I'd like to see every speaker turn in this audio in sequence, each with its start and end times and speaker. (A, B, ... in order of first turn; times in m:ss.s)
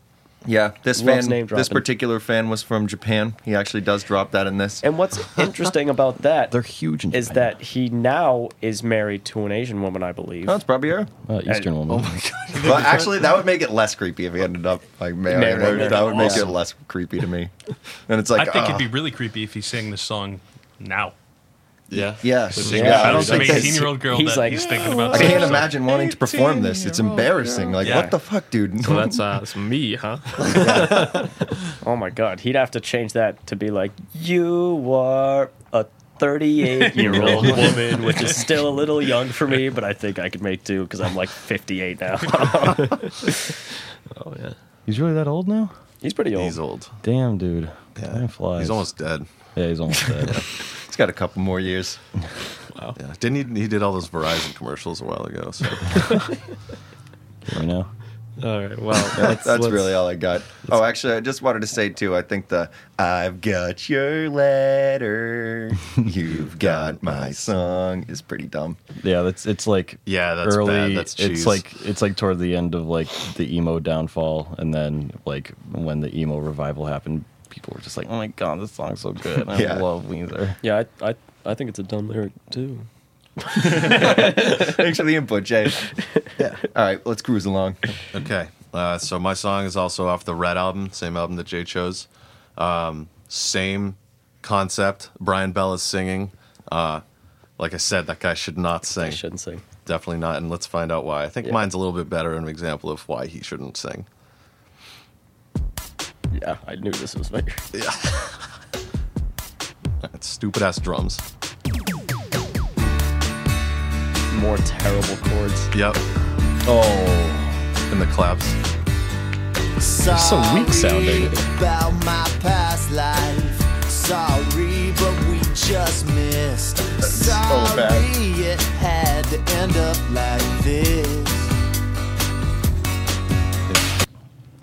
0:00.4-0:04.8 A
0:01.0-0:01.8 B
0:04.8-0:06.5 B
0:06.5-0:07.6 C
0:07.1-0:10.6 B
0:10.4-0:11.1 A
0:11.2-0:12.2 C
0:11.9-0:13.4 D
0:12.6-0:17.5 A
0:15.3-0:16.5 B
0:15.9-0:16.5 D
0:18.1-0:18.9 A
0:18.3-0:21.1 E
0:21.9-0:23.8 D
0:22.2-0:23.9 A
0:22.7-0:25.4 B
0:22.7-0:25.7 E
0:24.5-0:28.1 D
0:25.1-0:29.2 A
0:27.8-0:28.1 B
0:28.8-0:31.1 F
0:30.6-0:31.2 B
0:30.8-0:31.3 D
0:31.8-0:43.5 B
0:37.1-0:37.8 D
0:44.1-0:44.5 F
0:44.9-0:45.7 C
0:46.0-0:46.6 B
0:46.3-0:46.9 D
0:47.0-0:48.8 C
0:48.0-0:49.3 D
0:49.5-0:50.4 C
0:50.7-0:52.0 A
0:53.0-0:56.2 D
0:57.4-0:57.9 C
0:58.4-1:00.0 F
0:59.1-1:08.8 A
1:06.4-1:07.5 D
1:09.0-1:20.6 C
1:10.0-1:11.6 D
1:19.5-1:19.8 A
1:20.6-1:22.9 B
1:23.6-1:24.5 B
1:23.6-1:25.9 A
1:26.6-1:28.0 A
1:28.1-1:37.0 D
1:37.6-1:39.2 D
1:39.0-1:39.6 B
1:39.8-1:44.1 D
1:46.3-1:47.6 B
1:47.7-1:48.4 D
1:50.0-1:51.2 D
1:54.3-1:55.7 B
1:55.7-1:56.0 D
1:56.6-1:57.6 C
1:57.9-1:58.6 D
1:59.8-2:11.5 G
2:00.1-2:01.4 C
2:07.0-2:08.1 A